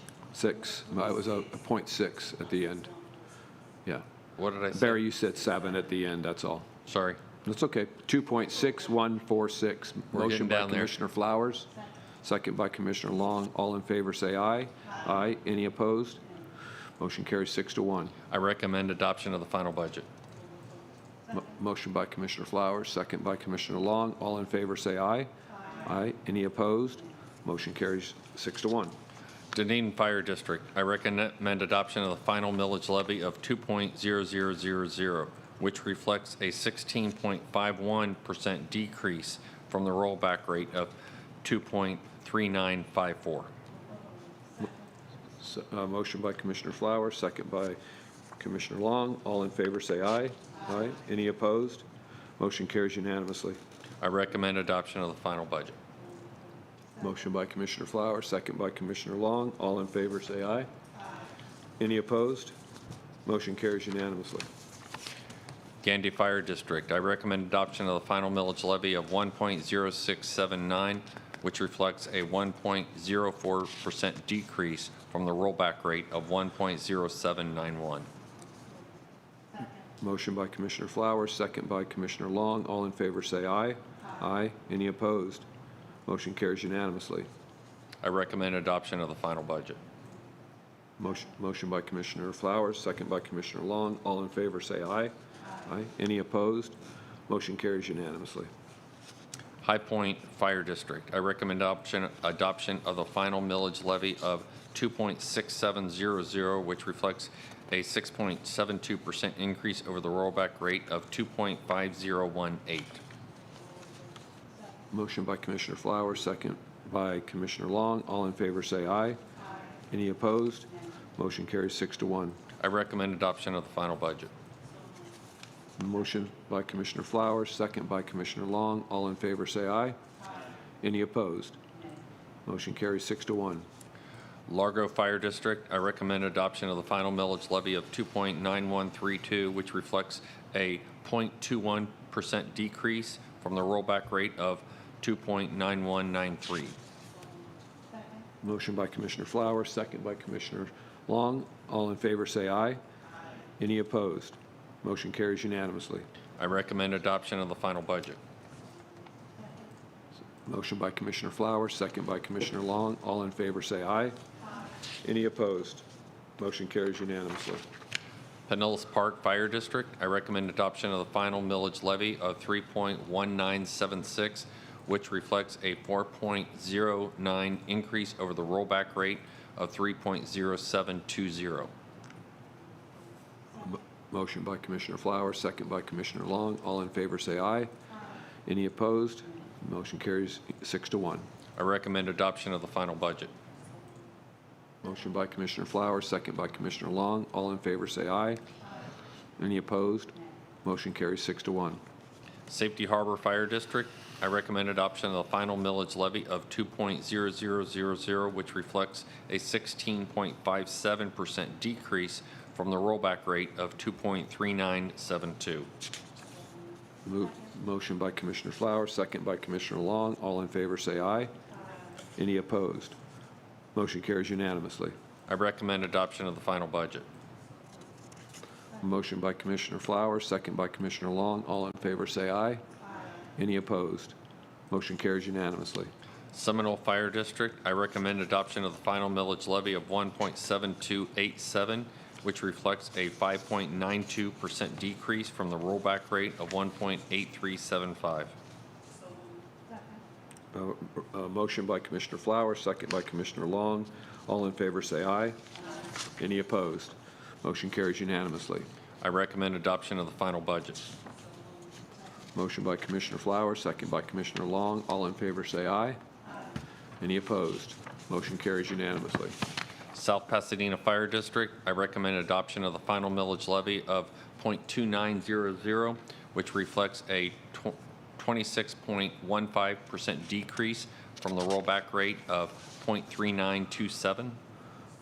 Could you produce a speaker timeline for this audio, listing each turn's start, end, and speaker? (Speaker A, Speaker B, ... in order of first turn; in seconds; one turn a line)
Speaker A: 0.3-2.9
Speaker B: 4.4-5.0
Speaker A: 4.7-6.7
Speaker B: 6.8-7.2
Speaker A: 7.4-11.7
Speaker B: 10.1-10.9
Speaker A: 12.2-16.2
Speaker A: 17.0-18.1
Speaker B: 18.3-20.1
Speaker A: 21.3-25.3
Speaker A: 25.8-28.9
Speaker B: 29.5-43.5
Speaker A: 45.4-47.8
Speaker A: 48.4-51.8
Speaker A: 52.4-53.6
Speaker B: 54.0-55.8
Speaker A: 57.0-60.7
Speaker A: 61.8-62.5
Speaker A: 63.2-64.5
Speaker B: 65.8-78.1
Speaker A: 80.0-85.4
Speaker A: 86.0-87.3
Speaker B: 88.0-89.8
Speaker A: 91.0-95.1
Speaker A: 95.7-96.8
Speaker A: 97.3-98.5
Speaker B: 99.6-113.0
Speaker A: 114.9-119.2
Speaker A: 119.9-122.3
Speaker B: 122.6-124.3
Speaker A: 125.8-129.9
Speaker A: 130.8-131.6
Speaker A: 132.4-133.6
Speaker B: 134.5-146.7
Speaker A: 148.4-152.8
Speaker A: 153.6-156.1
Speaker B: 156.4-158.2
Speaker A: 160.4-164.1
Speaker A: 165.0-165.8
Speaker A: 166.4-167.6
Speaker B: 168.5-181.7
Speaker A: 183.6-187.7
Speaker A: 188.4-191.2
Speaker B: 191.6-193.3
Speaker A: 194.8-198.4
Speaker A: 199.4-200.1
Speaker A: 200.6-201.8
Speaker B: 202.5-215.7
Speaker A: 217.0-221.3
Speaker A: 222.2-222.9
Speaker A: 223.7-224.9
Speaker B: 225.3-227.1
Speaker A: 228.8-232.6
Speaker A: 233.4-234.1
Speaker A: 234.7-235.9
Speaker B: 236.3-248.3
Speaker A: 250.5-255.4
Speaker A: 256.2-258.6
Speaker B: 259.0-260.9
Speaker A: 262.3-266.0
Speaker A: 267.0-269.3
Speaker B: 269.9-284.4